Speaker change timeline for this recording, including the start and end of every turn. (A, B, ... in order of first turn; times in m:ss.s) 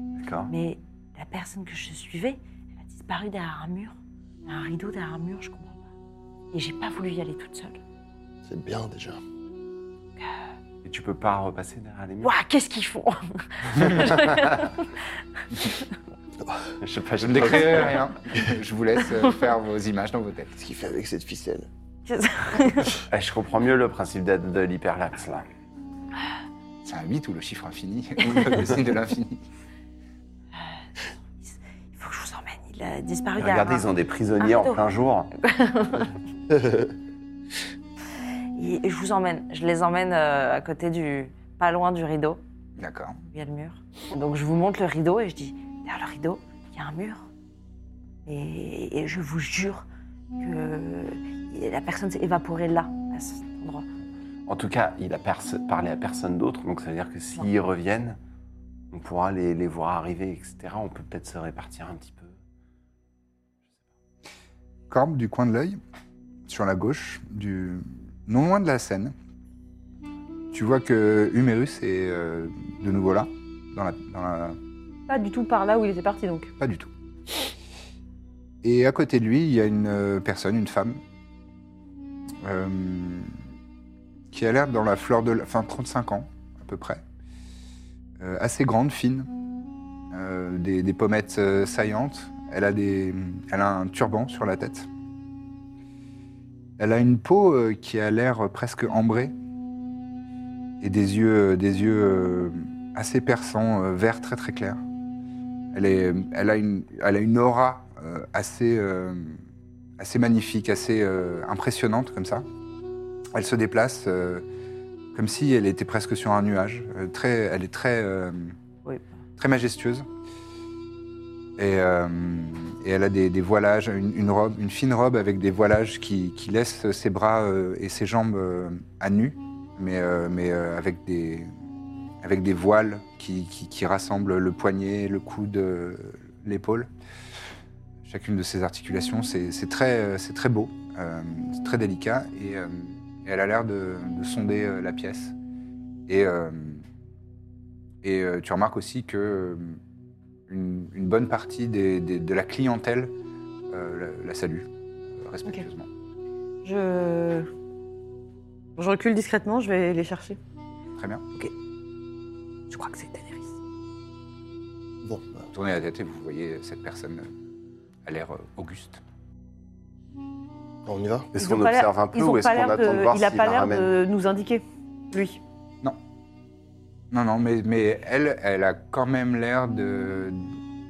0:00.2-0:00.5 A
0:00.5-0:05.8 B
0:06.5-0:07.8 B
0:08.4-0:09.2 C
0:10.8-0:12.3 A
0:12.2-0:14.9 B
0:16.8-0:18.0 A
0:17.2-0:20.6 D
0:20.6-0:21.7 C
0:22.0-0:23.0 B
0:23.1-0:25.5 A
0:26.8-0:29.4 D
0:31.4-0:33.9 B
0:33.4-0:35.3 A
0:34.4-0:34.8 B
0:35.4-0:36.1 B
0:36.5-0:36.9 C
0:38.6-0:42.4 B
0:42.8-0:43.2 D
0:43.3-0:47.3 B
0:48.2-0:49.8 B
0:50.4-0:53.9 B
0:54.5-0:58.2 A
0:58.9-1:02.4 A
1:04.9-1:05.8 D
1:06.5-1:09.1 D
1:10.5-1:14.6 D
1:15.1-1:16.5 E
1:16.6-1:16.9 D
1:18.6-1:21.0 D
1:22.4-1:23.3 D
1:24.3-1:27.0 D
1:28.2-1:29.3 D
1:30.1-1:34.9 D
1:36.8-1:39.3 D
1:40.8-1:44.8 D
1:45.7-1:49.4 D
1:50.0-1:52.4 D
1:53.3-1:54.4 D
1:55.1-1:58.6 D
1:59.4-2:00.0 D
2:01.6-2:11.5 D
2:12.2-2:16.9 D
2:18.0-2:25.3 D
2:26.1-2:26.8 D
2:28.0-2:29.8 D
2:30.5-2:33.1 D
2:33.7-2:34.7 D
2:35.2-2:35.9 D
2:36.6-2:37.5 E
2:38.8-2:40.4 E
2:41.0-2:41.2 D
2:42.7-2:43.5 E
2:45.0-2:45.4 C
2:45.5-2:47.3 D
2:48.0-2:49.0 D
2:50.8-2:51.3 C
2:51.3-2:53.9 A
2:51.4-2:55.4 E
2:57.1-3:00.5 D